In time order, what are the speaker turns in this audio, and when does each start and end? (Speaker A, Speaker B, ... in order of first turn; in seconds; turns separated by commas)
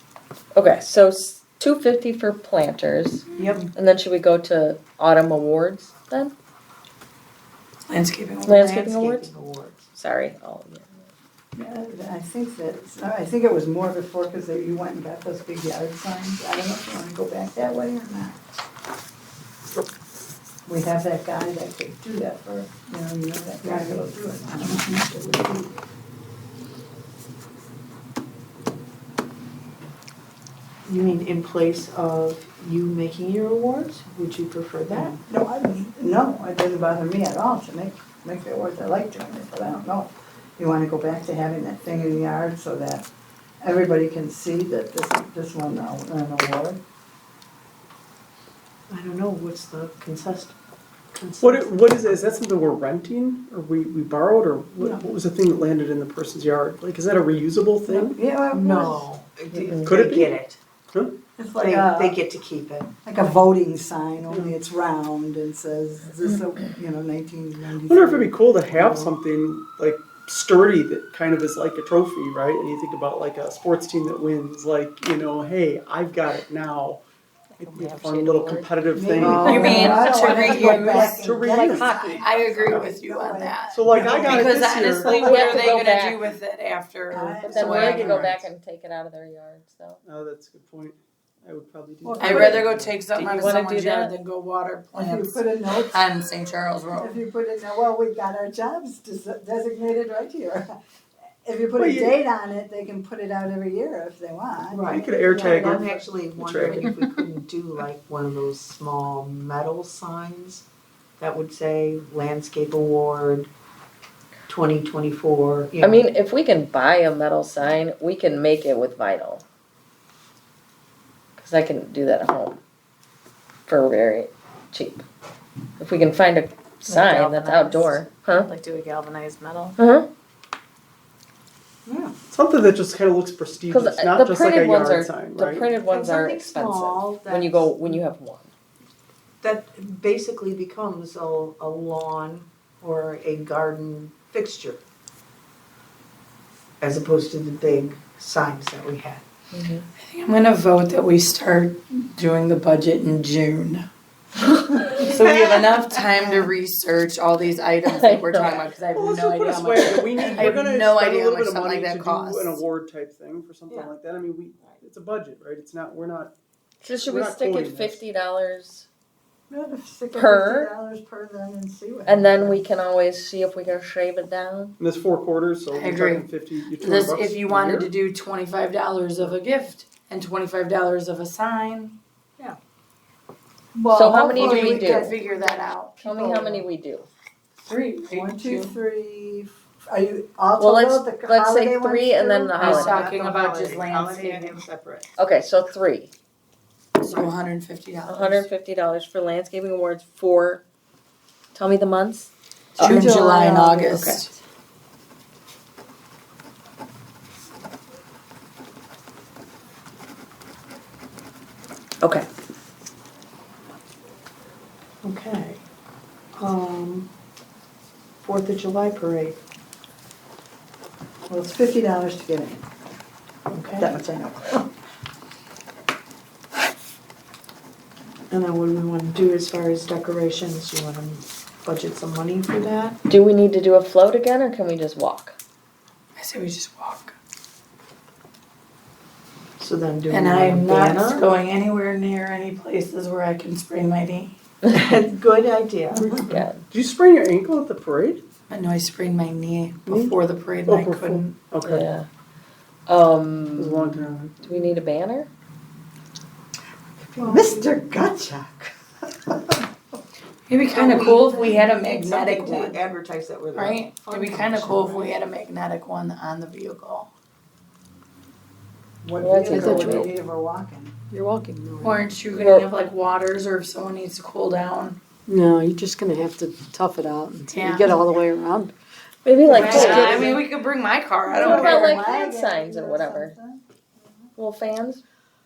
Speaker A: 0.5-6.3, Speaker B: 3.3-3.7, Speaker C: 7.8-9.0, Speaker A: 8.4-9.3, Speaker B: 8.8-9.9, Speaker A: 9.9-11.1, Speaker D: 11.6-18.4, Speaker D: 20.7-25.7, Speaker B: 23.6-24.0, Speaker B: 30.9-35.2, Speaker D: 34.9-43.1, Speaker D: 43.6-46.8, Speaker B: 48.9-50.5, Speaker B: 51.1-52.3, Speaker E: 51.4-58.2, Speaker D: 57.9-59.1, Speaker B: 58.5-60.6, Speaker A: 59.5-60.0, Speaker E: 59.8-60.4, Speaker E: 60.9-61.1, Speaker D: 61.4-62.2, Speaker B: 61.6-62.9, Speaker D: 63.0-68.9, Speaker E: 64.3-64.5, Speaker E: 67.8-77.0, Speaker A: 77.6-80.5, Speaker E: 77.7-82.2, Speaker D: 78.9-84.5, Speaker C: 79.2-88.3, Speaker E: 83.7-85.7, Speaker D: 85.0-85.5, Speaker A: 85.0-86.2, Speaker D: 87.1-88.1, Speaker A: 87.4-90.0, Speaker E: 87.7-88.4, Speaker E: 90.0-93.5, Speaker D: 92.0-92.7, Speaker C: 92.2-97.2, Speaker A: 93.2-94.2, Speaker D: 94.9-96.0, Speaker D: 97.0-100.7, Speaker D: 101.4-105.9, Speaker E: 101.7-102.2, Speaker B: 104.7-110.6, Speaker E: 104.9-106.9, Speaker B: 111.2-113.5, Speaker B: 114.5-116.0, Speaker A: 115.8-119.4, Speaker A: 121.4-122.6, Speaker A: 123.7-125.0, Speaker A: 125.8-128.5, Speaker F: 126.8-129.8, Speaker A: 129.8-130.1, Speaker B: 131.8-132.1, Speaker E: 132.3-135.7, Speaker A: 133.7-138.5, Speaker B: 135.9-138.0, Speaker B: 139.4-144.8, Speaker B: 146.8-149.2, Speaker A: 149.5-149.8, Speaker C: 150.0-153.9, Speaker C: 154.9-162.6, Speaker B: 155.2-155.6, Speaker A: 157.8-158.6, Speaker E: 158.9-166.3, Speaker A: 159.8-160.5, Speaker A: 166.8-168.9, Speaker E: 166.9-168.0, Speaker D: 169.5-172.6, Speaker A: 170.1-170.7, Speaker A: 172.1-174.8, Speaker E: 174.8-177.9, Speaker C: 175.7-182.0, Speaker D: 183.7-185.5, Speaker A: 183.9-185.1, Speaker C: 184.3-186.6, Speaker A: 186.0-187.1, Speaker C: 187.6-188.7, Speaker D: 188.0-192.6, Speaker A: 190.6-193.1, Speaker C: 192.6-194.6, Speaker B: 192.6-195.1, Speaker A: 195.2-196.1, Speaker C: 197.0-198.5, Speaker A: 198.1-200.6, Speaker A: 201.5-203.0, Speaker D: 202.8-204.2, Speaker C: 202.8-204.3, Speaker A: 203.9-204.2, Speaker B: 215.0-215.6, Speaker B: 216.3-217.1, Speaker B: 218.2-219.4, Speaker D: 221.3-222.6, Speaker B: 223.5-223.9, Speaker D: 223.8-224.7, Speaker B: 228.3-233.0, Speaker A: 233.1-235.3, Speaker C: 236.2-237.1, Speaker B: 239.6-241.3, Speaker C: 240.1-244.3, Speaker B: 244.7-246.2, Speaker E: 245.9-248.2, Speaker A: 246.2-246.7, Speaker C: 248.5-251.4, Speaker E: 249.9-251.9, Speaker A: 251.6-252.1, Speaker A: 252.9-255.3, Speaker E: 253.5-254.4, Speaker B: 257.1-257.7, Speaker D: 257.2-259.6, Speaker C: 260.5-262.8, Speaker B: 260.7-265.2, Speaker C: 263.5-267.1, Speaker D: 269.0-270.9, Speaker A: 269.2-270.1, Speaker C: 269.5-270.0, Speaker G: 271.1-272.0, Speaker C: 271.8-275.0, Speaker A: 272.3-272.7, Speaker G: 275.3-278.7, Speaker C: 277.5-278.0, Speaker A: 279.2-280.3, Speaker C: 279.5-282.0, Speaker B: 279.5-280.4, Speaker D: 279.7-280.4, Speaker D: 281.3-284.3, Speaker A: 281.3-283.3, Speaker A: 284.4-285.0